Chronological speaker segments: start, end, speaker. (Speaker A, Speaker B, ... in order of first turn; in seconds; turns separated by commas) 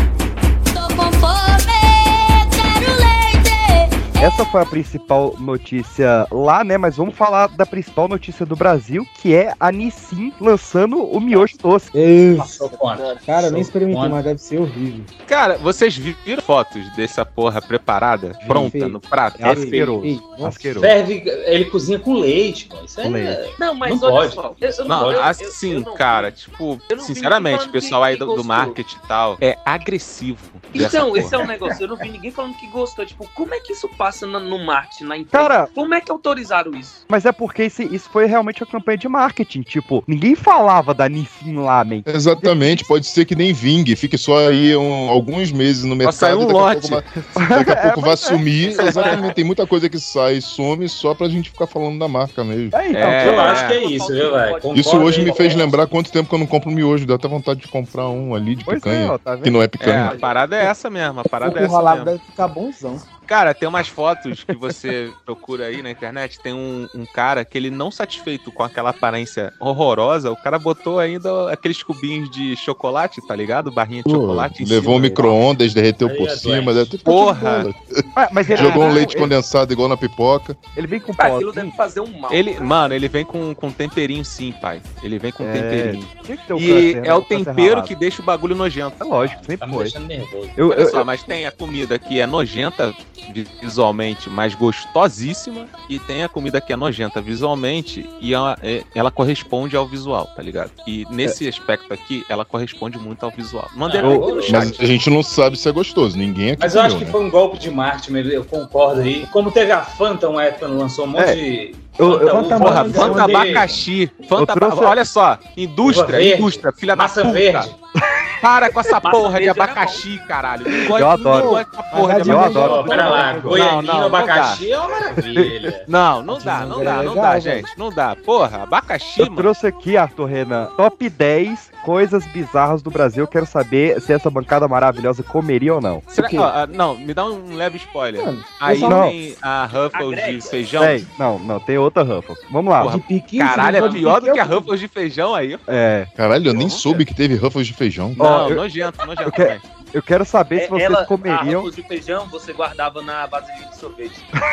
Speaker A: 0.7-4.3, Speaker B: 4.2-11.9, Speaker C: 11.9-12.6, Speaker D: 12.3-14.2, Speaker E: 12.7-13.6, Speaker C: 13.2-15.1, Speaker F: 15.3-19.7, Speaker B: 18.4-18.7, Speaker C: 18.5-20.8, Speaker B: 19.4-20.9, Speaker E: 19.5-20.0, Speaker D: 20.8-25.3, Speaker B: 23.0-23.4, Speaker E: 23.6-26.3, Speaker F: 24.9-31.5, Speaker E: 26.9-28.8, Speaker E: 30.7-37.0, Speaker B: 35.3-35.7, Speaker B: 37.1-42.9, Speaker G: 42.1-52.9, Speaker F: 46.0-47.4, Speaker B: 47.4-48.5, Speaker E: 48.8-49.5, Speaker F: 48.8-49.1, Speaker B: 52.7-53.5, Speaker F: 52.9-53.8, Speaker D: 53.0-55.7, Speaker E: 53.2-55.9, Speaker G: 54.7-60.2, Speaker B: 58.6-60.2, Speaker F: 59.8-62.1, Speaker C: 61.4-63.0, Speaker F: 63.2-75.4, Speaker G: 74.0-80.6, Speaker D: 76.0-76.9, Speaker F: 77.0-77.7, Speaker B: 78.2-79.3, Speaker B: 80.8-81.8, Speaker E: 81.2-82.9, Speaker F: 82.3-89.0, Speaker B: 85.4-87.9, Speaker B: 89.0-90.0, Speaker D: 89.2-90.5, Speaker B: 90.5-91.1, Speaker F: 90.7-104.8, Speaker D: 103.9-104.7, Speaker B: 104.0-104.6, Speaker G: 104.5-107.2, Speaker D: 106.6-113.7, Speaker B: 111.1-111.4, Speaker B: 112.0-113.1, Speaker C: 112.2-113.8, Speaker F: 112.6-117.7, Speaker B: 114.3-115.0, Speaker D: 115.8-117.8, Speaker B: 118.0-118.3, Speaker F: 118.4-124.6, Speaker E: 119.0-120.0, Speaker B: 120.8-121.6, Speaker C: 121.2-123.6, Speaker B: 122.2-123.5, Speaker D: 122.6-125.9, Speaker B: 125.1-125.7, Speaker F: 125.9-129.5, Speaker C: 126.3-127.7, Speaker B: 129.2-136.0, Speaker F: 136.1-141.0, Speaker C: 136.2-136.5, Speaker C: 138.2-139.1, Speaker B: 138.8-139.2, Speaker E: 139.7-140.9, Speaker B: 140.8-143.0, Speaker F: 142.8-145.6, Speaker C: 142.8-144.7, Speaker B: 145.7-146.1, Speaker G: 146.2-148.2, Speaker F: 146.5-147.0, Speaker B: 148.2-148.6, Speaker F: 148.2-149.6, Speaker B: 149.2-151.7, Speaker E: 150.5-154.3